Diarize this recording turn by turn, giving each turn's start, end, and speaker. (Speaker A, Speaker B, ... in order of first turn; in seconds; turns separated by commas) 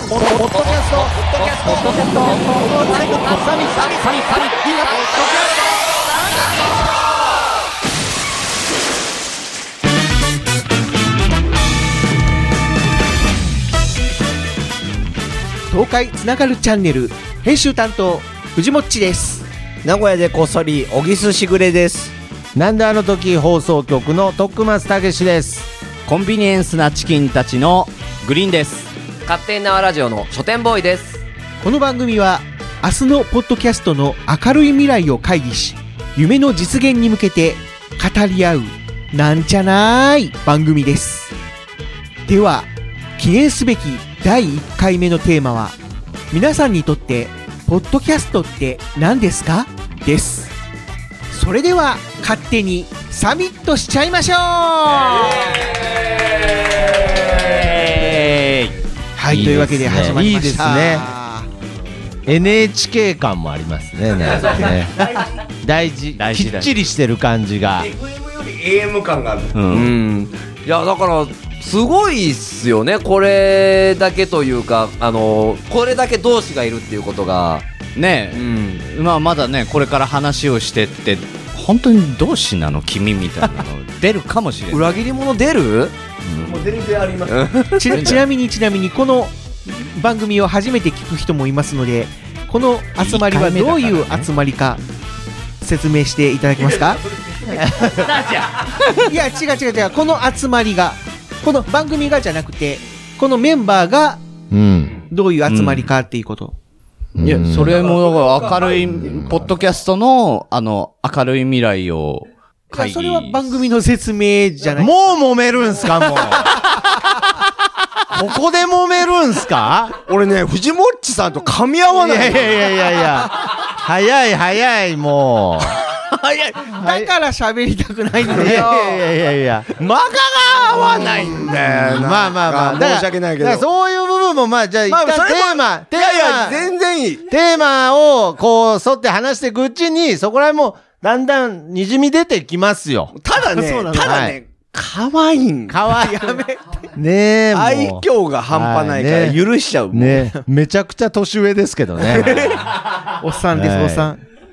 Speaker A: 0.1-3.9, Speaker B: 0.4-5.7, Speaker C: 1.6-5.1, Speaker D: 15.7-19.5, Speaker E: 19.8-22.1, Speaker A: 22.6-25.7, Speaker C: 26.1-28.9, Speaker B: 29.3-31.2, Speaker D: 31.6-41.3, Speaker D: 42.3-45.8, Speaker D: 46.3-50.5, Speaker D: 51.3-55.6, Speaker C: 57.4-58.7, Speaker D: 59.2-61.5, Speaker A: 59.3-61.1, Speaker A: 62.3-65.0, Speaker E: 64.5-65.3, Speaker A: 65.6-67.9, Speaker C: 66.3-66.7, Speaker E: 67.8-69.6, Speaker C: 69.5-69.9, Speaker B: 69.7-77.7, Speaker C: 78.0-85.0, Speaker B: 78.3-78.8, Speaker B: 84.7-86.0, Speaker C: 86.2-86.8, Speaker E: 86.4-87.5, Speaker B: 87.3-88.2, Speaker D: 87.8-94.8, Speaker C: 93.0-94.3, Speaker D: 95.6-97.0, Speaker A: 97.6-98.2, Speaker C: 97.8-99.1, Speaker D: 99.0-104.2, Speaker A: 104.5-105.0, Speaker D: 105.1-106.5, Speaker C: 105.5-105.9, Speaker A: 107.2-107.8, Speaker C: 107.2-113.5, Speaker E: 107.8-108.8, Speaker A: 108.9-109.5, Speaker D: 112.7-115.0, Speaker A: 114.8-116.7, Speaker D: 116.4-116.8, Speaker A: 118.1-120.0, Speaker E: 120.0-122.9, Speaker A: 121.9-125.8, Speaker E: 125.9-126.7, Speaker A: 126.7-127.1, Speaker D: 126.8-129.0, Speaker A: 128.3-129.7, Speaker E: 128.4-128.8, Speaker E: 129.7-133.7, Speaker A: 130.8-136.7, Speaker E: 134.9-137.2, Speaker A: 137.3-143.1, Speaker E: 143.1-145.8, Speaker D: 143.4-144.3, Speaker A: 143.9-144.4, Speaker A: 145.7-146.4, Speaker D: 145.9-146.8, Speaker A: 146.9-149.4, Speaker E: 147.5-150.3, Speaker A: 149.9-152.6, Speaker E: 152.0-152.7, Speaker D: 153.2-154.2, Speaker A: 153.5-154.1